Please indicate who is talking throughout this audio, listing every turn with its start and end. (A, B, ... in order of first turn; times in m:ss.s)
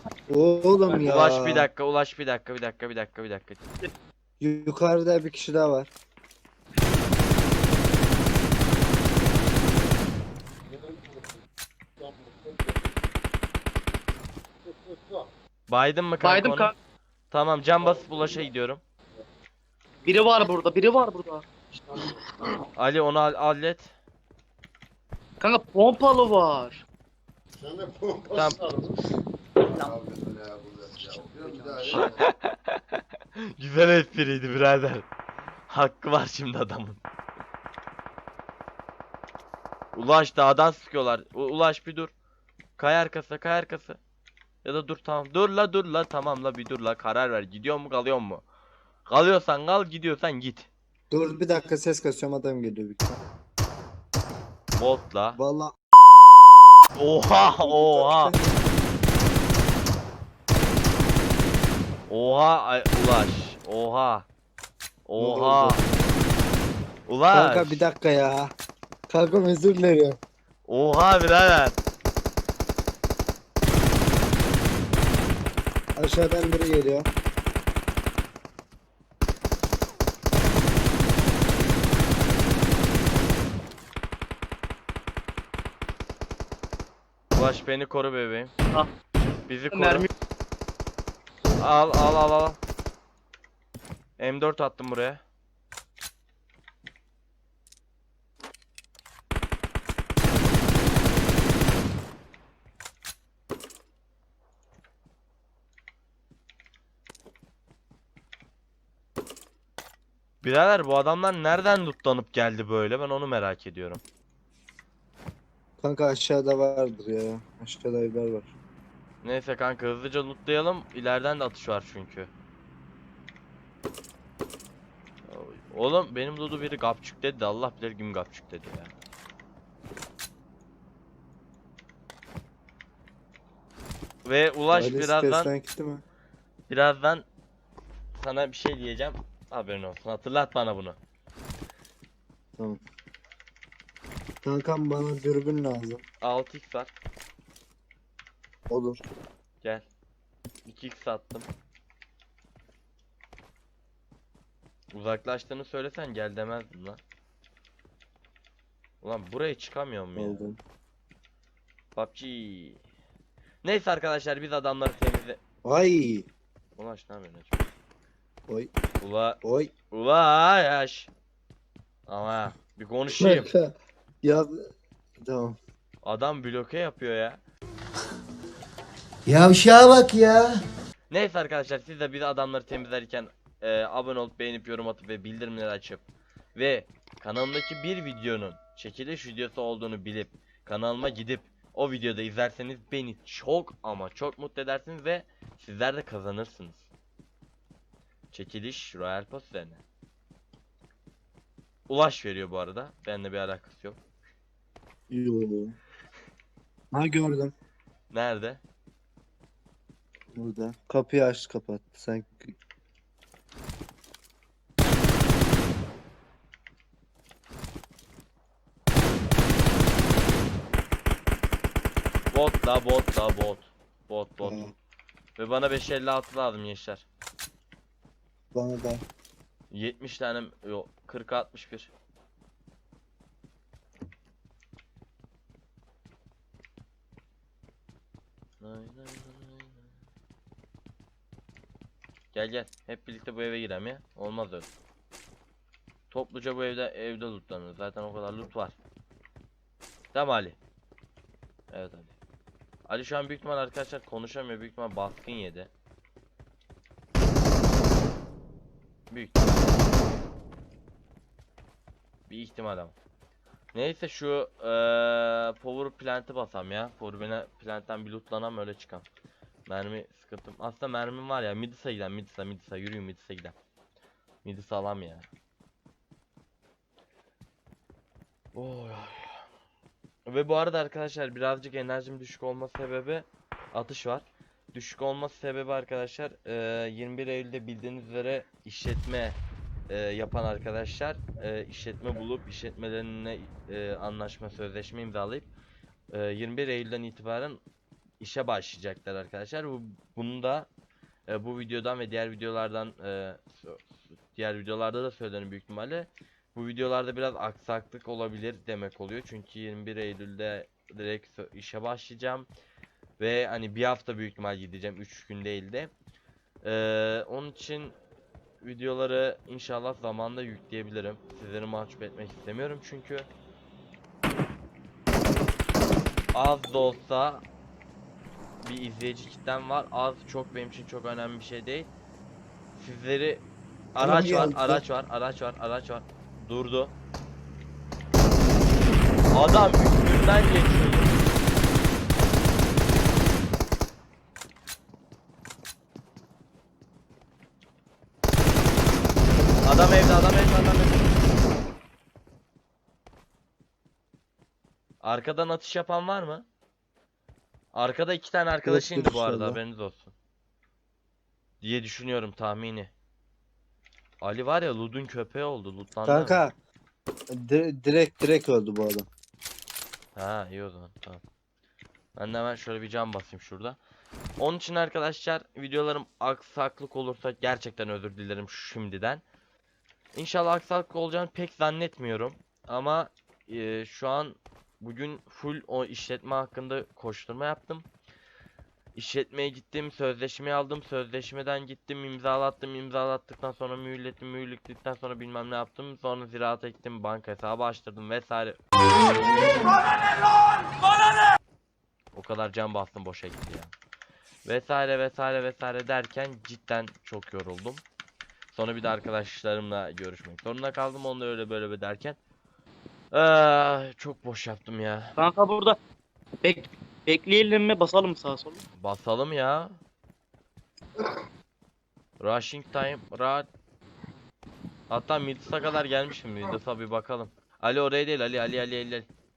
0:00.3-0:01.7 A
0:00.8-0:01.1 B
0:01.0-0:03.6 C
0:04.4-0:05.9 A
0:15.7-0:16.7 C
0:16.2-0:16.8 B
0:17.3-0:18.8 C
0:20.0-0:21.4 B
0:22.8-0:23.9 C
0:25.4-0:26.8 B
0:27.7-0:28.2 D
0:28.3-0:28.6 C
0:29.8-0:31.8 D
0:31.6-0:32.0 B
0:31.9-0:32.3 C
0:33.6-0:35.1 C
0:35.7-0:37.0 C
0:39.9-0:42.1 C
0:42.8-0:44.0 C
0:44.6-0:48.4 C
0:49.1-0:50.7 C
0:51.1-0:53.2 A
0:54.8-0:55.4 C
0:55.4-0:55.7 A
0:57.0-0:58.3 C
0:57.6-0:58.4 A
1:02.1-1:04.3 C
1:05.1-1:05.8 C
1:05.2-1:05.8 A
1:07.1-1:07.8 C
1:07.3-1:08.5 A
1:09.1-1:10.2 A
1:10.7-1:11.8 C
1:16.0-1:17.1 A
1:27.3-1:28.5 C
1:29.5-1:30.1 C
1:29.7-1:30.1 B
1:31.6-1:32.6 C
1:34.2-1:35.2 C
1:50.4-1:54.0 C
1:55.8-1:58.5 A
1:59.2-2:02.3 C
2:05.3-2:08.9 C
2:14.2-2:15.5 C
2:14.7-2:16.0 A
2:16.7-2:17.2 C
2:18.2-2:21.0 C
2:24.4-2:26.0 A
2:26.2-2:26.9 C
2:28.7-2:29.0 A
2:30.7-2:31.5 C
2:34.9-2:37.0 C
2:39.0-2:40.5 C
2:40.2-2:40.6 A
2:42.0-2:42.8 C
2:43.6-2:45.4 C
2:45.6-2:46.3 A
2:46.8-2:47.6 C
2:49.0-2:49.4 C
2:49.4-2:49.7 A
2:49.9-2:51.1 C
2:52.1-2:53.5 C
2:53.2-2:55.6 A
2:56.0-2:57.4 C
2:59.3-3:00.6 D
3:01.1-3:06.0 C
3:06.6-3:16.9 C
3:18.3-3:19.8 C
3:21.9-3:24.0 C
3:25.1-3:25.8 A
3:26.9-3:27.5 A
3:28.1-3:28.6 C
3:30.4-3:32.6 A
3:42.3-3:44.7 C
3:44.4-3:44.7 A
3:45.4-3:47.1 C
3:48.5-3:49.0 A
3:49.7-3:51.9 C
3:58.6-3:59.9 C
4:02.3-4:04.7 C
4:06.1-4:08.8 C
4:10.1-4:10.6 C
4:11.7-4:12.1 C
4:12.9-4:15.7 C
4:19.1-4:19.9 C
4:22.3-4:22.9 C
4:23.7-4:29.0 C
4:29.7-4:33.6 C
4:34.4-4:35.3 C
4:38.5-4:39.4 C
4:40.3-4:49.4 C
4:49.9-4:55.5 C
4:56.1-4:57.6 C
4:58.2-5:00.7 C
5:01.3-5:12.5 C
5:13.2-5:15.9 C
5:16.6-5:18.0 C
5:18.6-5:23.3 C
5:26.3-5:27.4 C
5:28.6-5:31.9 C
5:32.8-5:36.9 C
5:34.0-5:34.8 A
5:39.3-5:41.2 C
5:49.6-5:51.2 C
5:55.0-5:56.4 C
5:57.7-6:00.1 C
5:58.7-5:59.6 A
6:01.6-6:02.9 C
6:04.2-6:06.4 C
6:06.0-6:06.5 A
6:07.3-6:09.1 A
6:10.2-6:11.2 C
6:12.2-6:13.8 C
6:14.4-6:19.2 C
6:20.1-6:27.9 C
6:29.0-6:38.6 C
6:42.1-6:43.7 C
6:44.4-6:47.8 C
6:48.5-6:52.2 C
6:53.1-6:55.2 C
6:55.2-6:55.8 B
6:56.4-6:58.6 B
6:58.8-6:59.8 C
7:02.2-7:03.5 C
7:04.9-7:09.1 C